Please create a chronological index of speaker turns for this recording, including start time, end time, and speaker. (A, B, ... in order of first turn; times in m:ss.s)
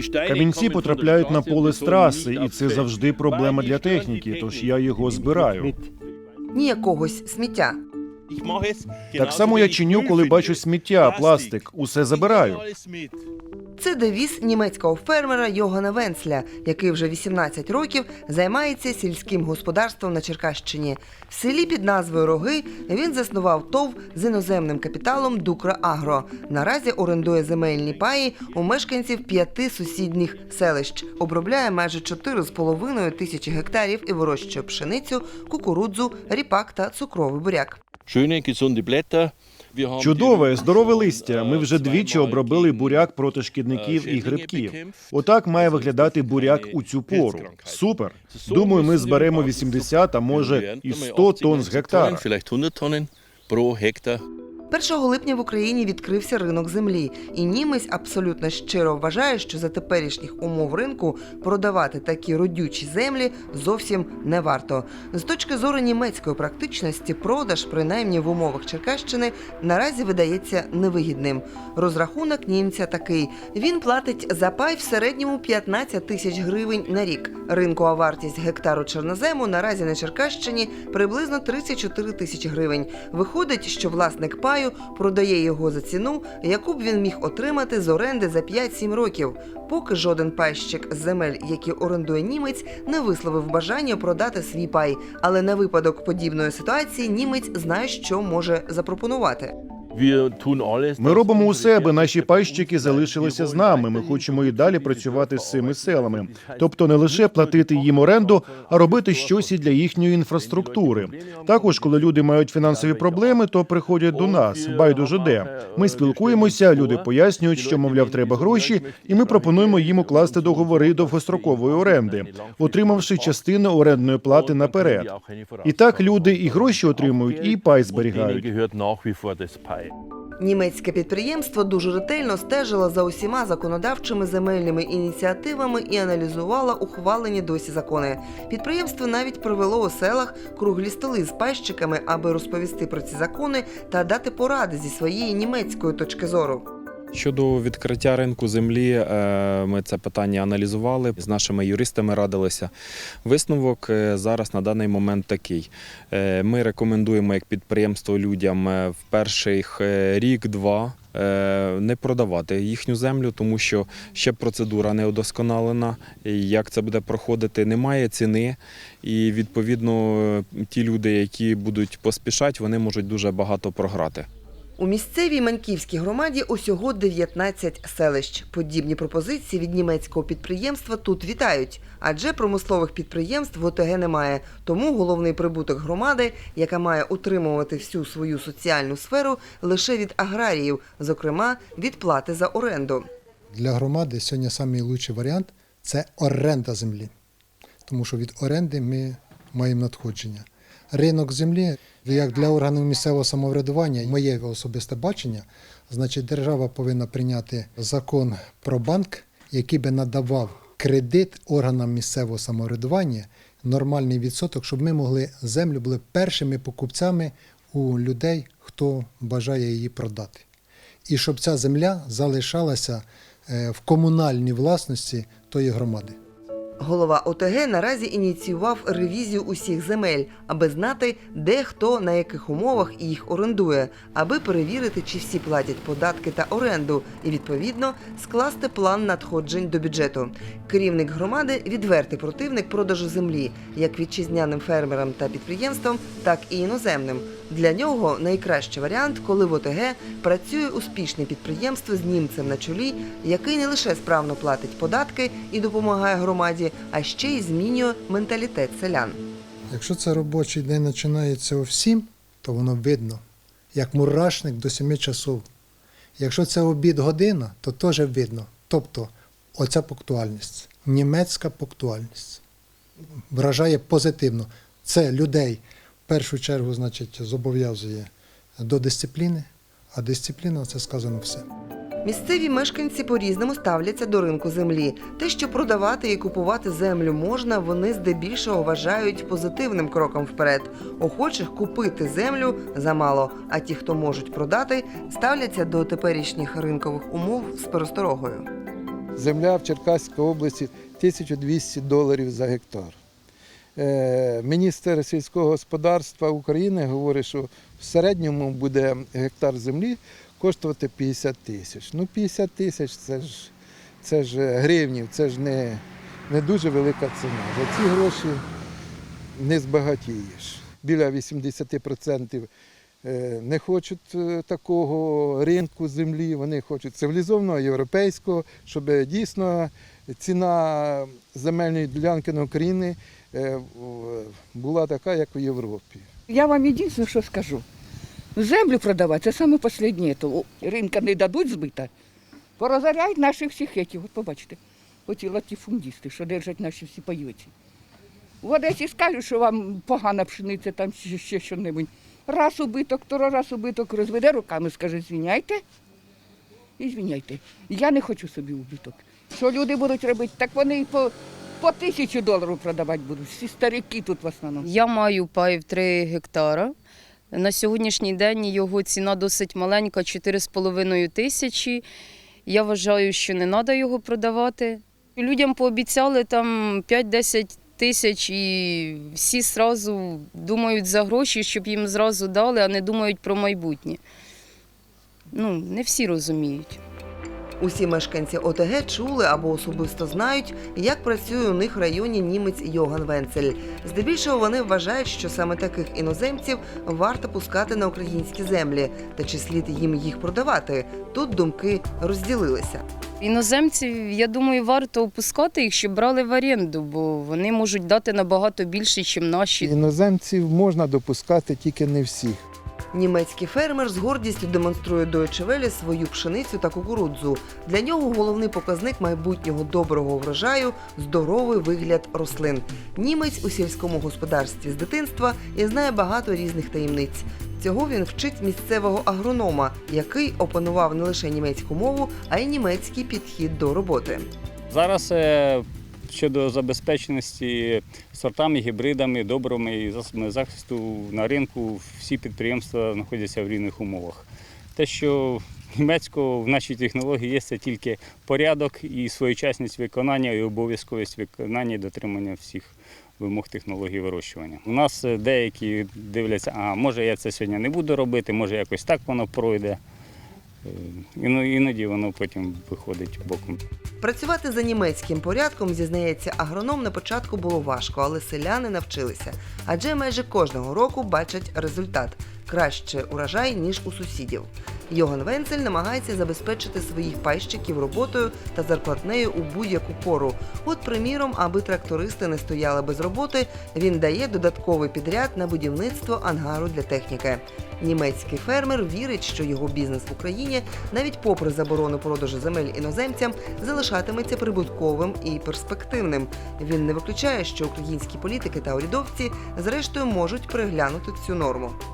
0:00.2-0:05.7 A
0:06.5-0:07.8 B
0:09.1-0:12.6 A
0:09.5-0:10.3 C
0:13.8-0:37.8 B
0:38.2-0:39.3 C
0:39.8-0:40.3 C
0:40.0-0:52.3 A
0:41.1-0:42.7 C
0:43.7-0:44.9 C
0:46.4-0:47.6 C
0:48.7-0:53.0 C
0:53.5-0:54.1 C
0:54.7-1:39.5 B
1:40.0-1:41.1 C
1:41.0-2:05.1 A
1:44.3-1:46.3 C
1:49.0-1:49.3 C
1:50.5-1:51.7 C
1:54.2-1:57.0 C
1:57.7-2:03.3 C
2:04.4-2:05.3 C
2:05.6-2:08.5 A
2:06.2-2:06.5 C
2:08.2-2:09.7 C
2:10.4-2:26.6 B
2:27.1-2:54.3 D
2:54.8-3:13.1 B
3:13.5-3:17.1 E
3:17.8-3:40.4 E
3:41.1-3:46.2 E
3:46.8-4:19.2 B
4:19.7-4:23.2 E
4:23.7-4:25.4 E
4:26.2-4:32.4 E
4:33.3-4:41.4 E
4:42.0-4:58.4 B
4:59.2-5:03.0 F
5:03.8-5:18.4 F
5:19.3-5:22.5 F
5:23.0-5:36.0 F
5:36.3-5:37.6 G
5:38.4-5:41.9 G
5:42.6-5:44.6 G
5:45.1-5:46.8 G
5:48.4-5:51.8 G
5:52.3-5:55.5 G
5:57.0-5:57.3 G
5:58.6-5:58.9 G
5:59.5-5:59.8 G
6:02.4-6:03.7 G
6:04.6-6:06.7 H
6:07.3-6:11.8 H
6:12.4-6:24.0 H
6:25.3-6:26.8 H
6:27.6-6:42.8 B
6:43.2-6:49.7 H
6:49.6-6:52.4 F
6:52.9-7:14.3 B
7:14.7-7:39.8 I
7:40.6-7:43.6 I
7:44.0-8:21.8 B